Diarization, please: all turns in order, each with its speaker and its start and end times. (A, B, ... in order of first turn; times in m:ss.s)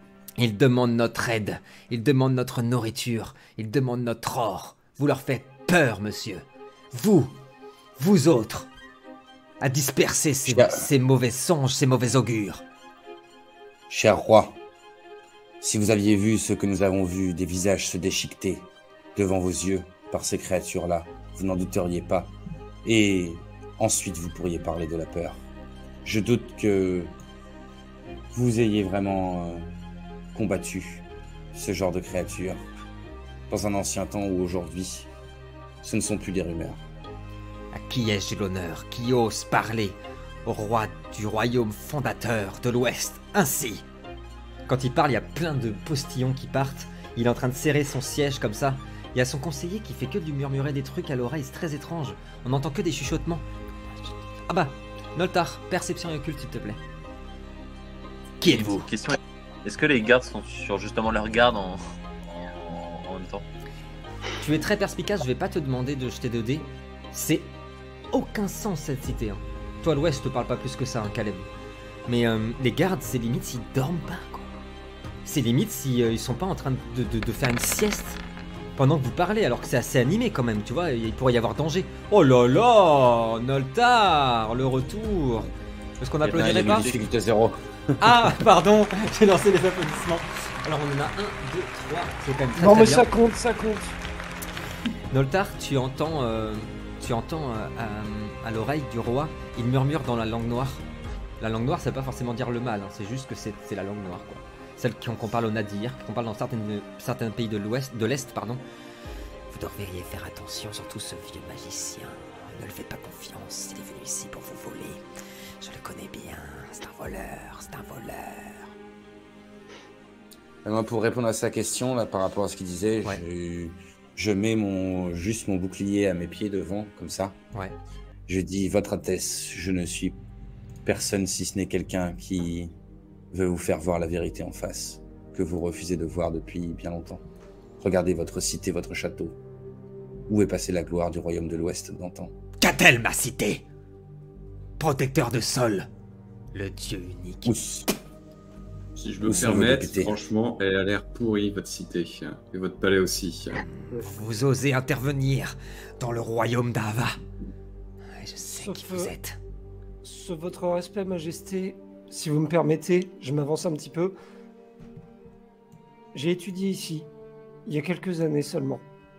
0:00.4-0:07.3 A
0:08.0-0:08.7 A
0:09.6-0:12.6 A
0:10.5-0:10.9 B
0:13.9-0:14.6 B
0:15.6-0:22.3 B
0:22.8-0:25.4 B
0:26.0-0:27.1 B
0:28.3-0:29.7 B
0:30.3-0:32.6 B
0:33.5-0:35.1 B
0:35.8-0:36.8 B
0:37.7-0:43.8 A
0:44.7-0:53.4 A
0:54.5-0:56.8 A
0:58.4-0:58.9 A
0:58.5-1:03.4 C
1:04.4-1:07.5 A
1:08.1-1:11.5 A
1:12.1-1:14.6 A
1:15.2-1:18.2 A
1:18.8-1:26.9 A
1:26.2-1:28.3 B
1:26.6-1:27.0 C
1:28.0-1:33.1 A
1:32.6-1:34.0 D
1:35.1-1:40.8 A
1:41.4-1:48.6 A
1:49.5-1:55.0 A
1:55.6-1:58.7 A
2:00.6-2:07.4 B
2:08.3-2:10.2 B
2:10.8-2:12.7 B
2:13.3-2:17.2 B
2:17.8-2:19.4 B
2:20.3-2:22.3 B
2:22.6-2:23.6 A
2:24.8-2:25.9 A
2:26.5-2:27.5 A
2:27.4-2:27.9 B
2:29.0-2:33.6 E
2:29.2-2:30.1 B
2:33.7-2:37.2 A
2:38.1-2:39.4 A
2:38.5-2:39.1 D
2:40.0-2:44.1 D
2:46.1-2:47.1 D
2:47.6-2:48.8 D